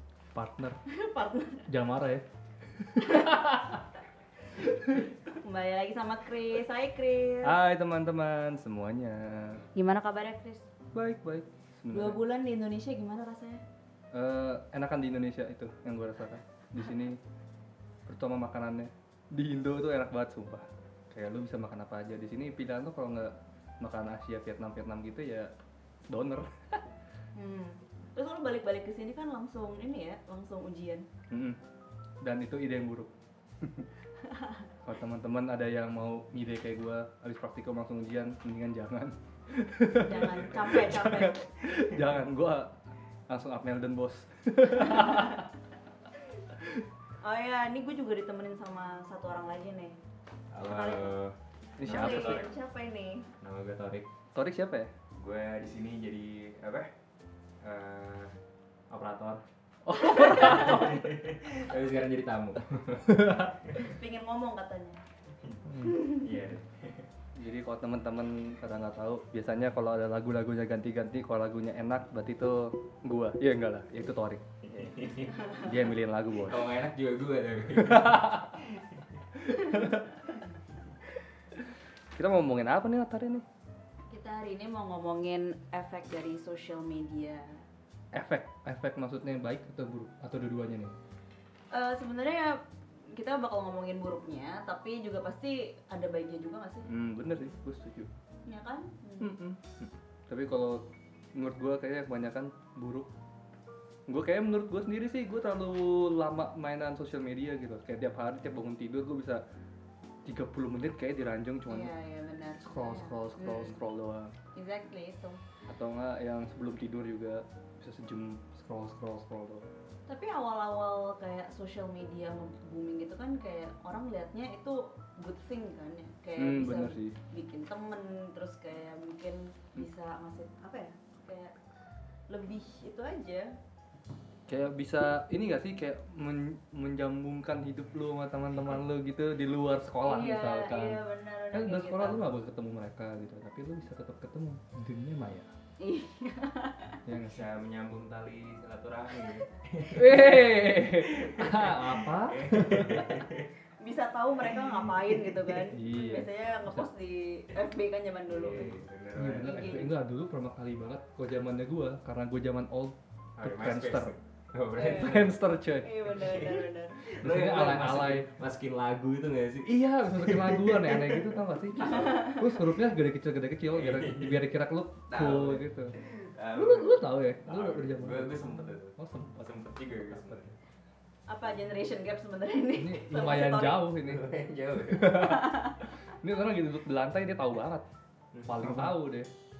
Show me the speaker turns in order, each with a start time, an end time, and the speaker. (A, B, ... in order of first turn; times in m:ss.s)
0:00.3-0:00.8 A
0:00.9-0:01.6 B
0:01.7-0:02.2 A
0:02.8-0:03.8 A
0:05.4-0:07.5 B
0:07.4-0:09.6 A
0:09.8-0:10.7 B
0:10.9-0:12.2 A
0:11.9-0:13.6 B
0:14.1-0:17.2 A
0:18.1-0:25.5 A
0:26.1-0:26.8 A
0:27.4-0:31.0 B
0:31.3-0:31.6 A
0:32.2-0:33.1 A
0:34.8-0:42.7 A
0:39.9-0:41.4 B
0:43.3-0:45.5 A
0:47.2-0:50.0 B
0:50.5-0:52.5 C
0:50.6-0:51.2 B
0:51.8-0:52.4 A
0:51.9-0:53.2 B
0:53.4-0:54.1 C
0:54.3-0:54.9 A
0:55.2-0:56.9 C
0:57.6-0:58.3 C
0:58.9-0:59.4 C
0:59.8-1:01.0 A
1:00.2-1:03.9 C
1:03.8-1:05.0 B
1:05.4-1:07.1 C
1:05.7-1:06.0 A
1:07.4-1:14.4 A
1:14.6-1:15.7 C
1:15.6-1:16.6 A
1:16.4-1:19.0 C
1:17.8-1:18.5 A
1:19.6-1:20.1 A
1:22.1-1:23.4 A
1:24.1-1:27.6 B
1:28.1-1:30.9 A
1:31.7-1:32.6 B
1:33.1-1:36.8 B
1:36.9-1:38.1 A
1:38.4-1:39.3 B
1:39.2-1:43.1 A
1:44.1-1:49.4 A
1:50.2-1:51.9 A
1:51.7-1:53.8 B
1:52.6-1:54.3 A
1:54.5-1:55.4 B
1:55.7-1:59.6 A
2:00.1-2:11.5 B
2:06.4-2:07.2 A
2:12.3-2:13.5 B
2:14.5-2:21.0 A
2:20.0-2:22.2 B
2:21.5-2:25.5 A
2:25.8-2:27.0 B
2:27.1-2:27.4 A
2:27.1-2:33.5 C
2:29.9-2:33.2 A
2:33.8-2:38.8 B
2:34.5-2:35.3 C
2:35.7-2:36.8 A
2:38.3-2:39.8 C
2:39.1-2:44.1 A
2:39.4-2:39.9 B
2:43.4-2:45.4 C
2:44.8-2:45.1 B
2:44.8-2:46.2 A
2:45.8-2:47.0 B
2:46.2-2:51.3 C
2:47.2-2:48.3 A
2:49.6-2:56.0 A
2:53.7-2:54.4 C
2:55.1-3:00.6 C
2:56.5-3:00.5 A
3:01.3-3:03.8 B
3:02.7-3:04.3 A
3:04.0-3:05.5 C
3:04.9-3:05.7 A
3:06.2-3:07.8 A
3:08.3-3:08.9 C
3:08.4-3:09.3 A